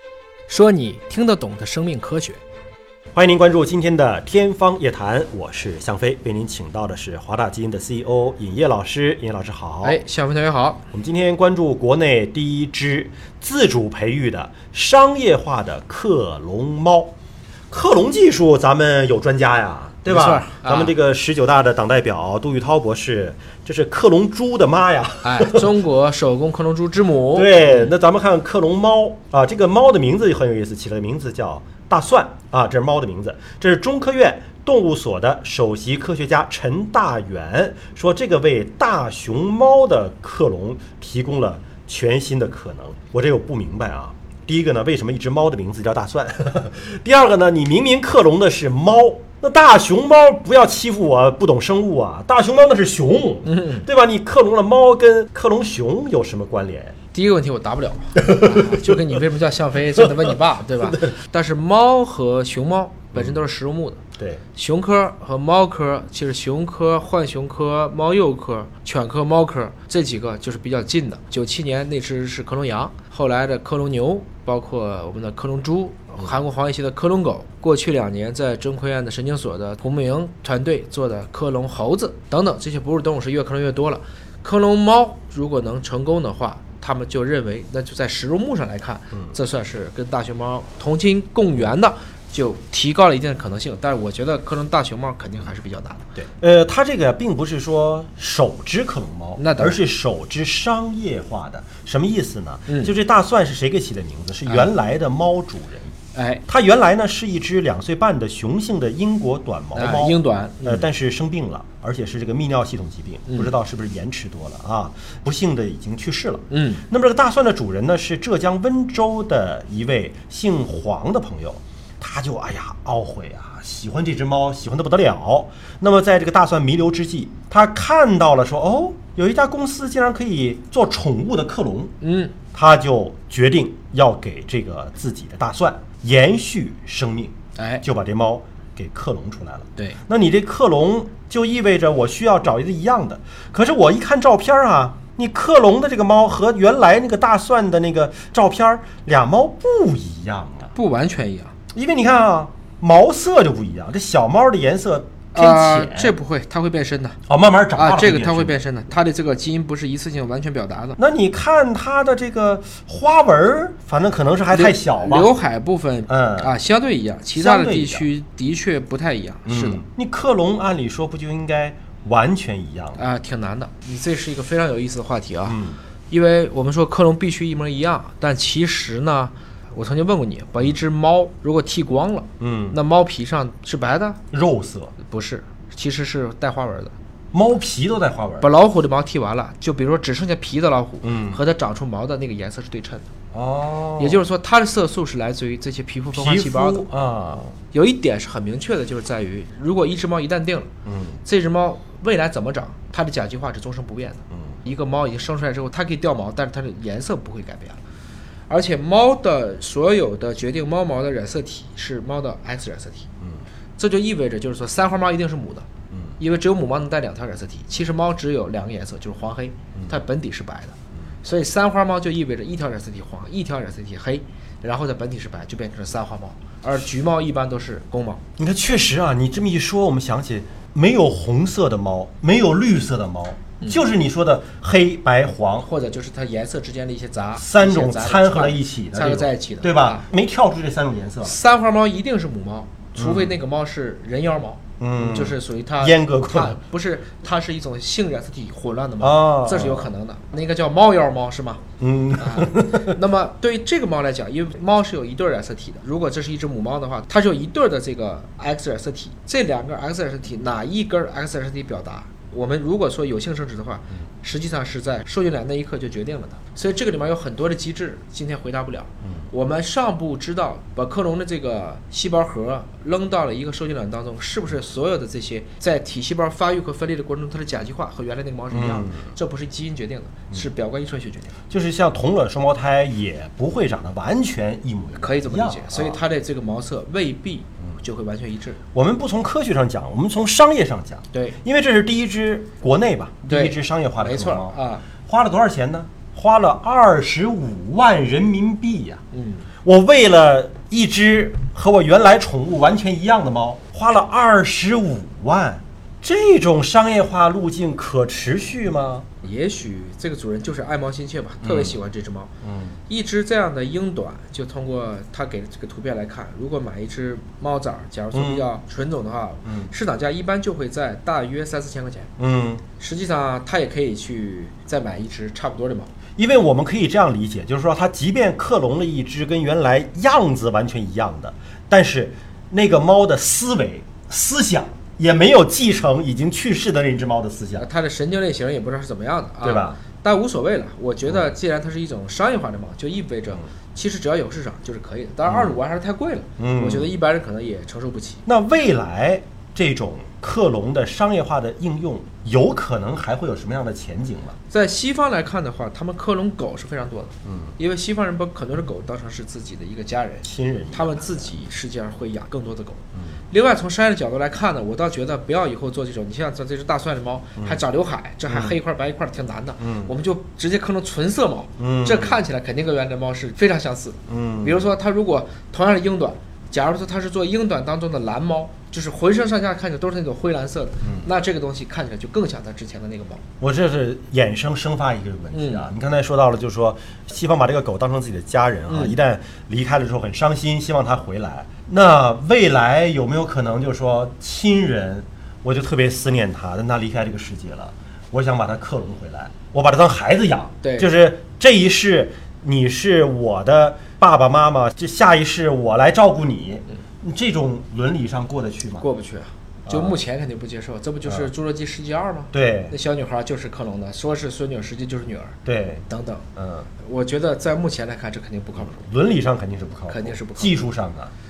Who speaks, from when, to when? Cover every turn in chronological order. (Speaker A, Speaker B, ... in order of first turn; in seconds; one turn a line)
Speaker A: 0.5-2.4
Speaker B: 3.1-10.0
Speaker A: 9.8-10.8
Speaker B: 10.9-17.1
Speaker B: 17.7-25.7
Speaker A: 20.1-20.9
Speaker A: 25.2-27.9
Speaker B: 27.3-57.0
Speaker A: 53.5-53.9
Speaker A: 57.1-64.0
Speaker B: 58.2-59.2
Speaker B: 60.0-61.1
Speaker B: 63.1-63.4
Speaker A: 64.5-96.1
Speaker B: 96.2-105.9
Speaker A: 99.4-99.8
Speaker A: 102.7-102.9
Speaker A: 106.1-106.4
Speaker B: 106.5-131.9
Speaker A: 109.8-110.9
Speaker A: 113.3-113.5
Speaker A: 116.5-116.8
Speaker A: 132.0-132.4
Speaker B: 132.5-150.7
Speaker A: 137.6-137.8
Speaker A: 150.8-151.5
Speaker B: 151.7-156.2
Speaker A: 155.3-157.2
Speaker B: 157.3-158.6
Speaker A: 157.8-161.0
Speaker B: 161.0-165.3
Speaker A: 164.5-169.8
Speaker B: 166.1-166.5
Speaker B: 167.3-168.1
Speaker B: 169.5-173.0
Speaker A: 173.0-175.6
Speaker B: 175.5-175.8
Speaker A: 176.1-184.2
Speaker B: 182.4-182.8
Speaker B: 184.3-184.9
Speaker A: 185.0-186.9
Speaker B: 187.3-188.5
Speaker A: 188.4-193.1
Speaker B: 191.0-191.4
Speaker B: 193.3-194.2
Speaker A: 194.0-196.9
Speaker B: 196.1-197.6
Speaker A: 197.7-200.7
Speaker B: 200.9-201.2
Speaker A: 201.2-207.8
Speaker B: 204.3-204.6
Speaker A: 208.5-213.1
Speaker A: 213.8-215.7
Speaker B: 215.9-216.2
Speaker A: 216.2-228.2
Speaker B: 228.4-235.7
Speaker A: 235.6-240.1
Speaker B: 237.4-241.4
Speaker A: 241.2-251.6
Speaker B: 242.9-243.4
Speaker B: 244.8-246.6
Speaker B: 249.0-249.9
Speaker B: 251.8-252.9
Speaker A: 252.2-281.4
Speaker B: 278.5-279.1
Speaker B: 281.5-286.0
Speaker A: 285.0-288.6
Speaker B: 288.7-299.0
Speaker A: 291.1-291.4
Speaker A: 293.2-294.9
Speaker A: 299.1-299.5
Speaker B: 299.6-309.1
Speaker A: 309.2-312.3
Speaker B: 311.4-311.8
Speaker B: 312.4-312.8
Speaker A: 312.9-322.1
Speaker B: 318.1-318.5
Speaker B: 319.4-319.7
Speaker B: 322.2-322.6
Speaker A: 322.8-325.9
Speaker B: 326.2-337.7
Speaker A: 337.6-348.2
Speaker B: 339.4-339.8
Speaker B: 345.2-345.6
Speaker B: 346.4-346.9
Speaker B: 348.3-354.4
Speaker A: 354.5-383.2
Speaker B: 357.2-357.6
Speaker B: 360.2-361.4
Speaker B: 362.9-363.2
Speaker B: 368.3-368.6
Speaker B: 369.6-369.9
Speaker B: 371.6-372.2
Speaker B: 374.1-374.7
Speaker B: 383.4-408.9
Speaker A: 385.3-385.7
Speaker A: 388.7-389.0
Speaker A: 400.6-400.9
Speaker A: 408.8-415.4
Speaker B: 409.7-410.0
Speaker B: 412.3-412.8
Speaker B: 415.5-415.9
Speaker A: 415.9-416.2
Speaker B: 416.4-416.7
Speaker A: 416.8-418.9
Speaker B: 418.6-421.1
Speaker A: 419.9-420.7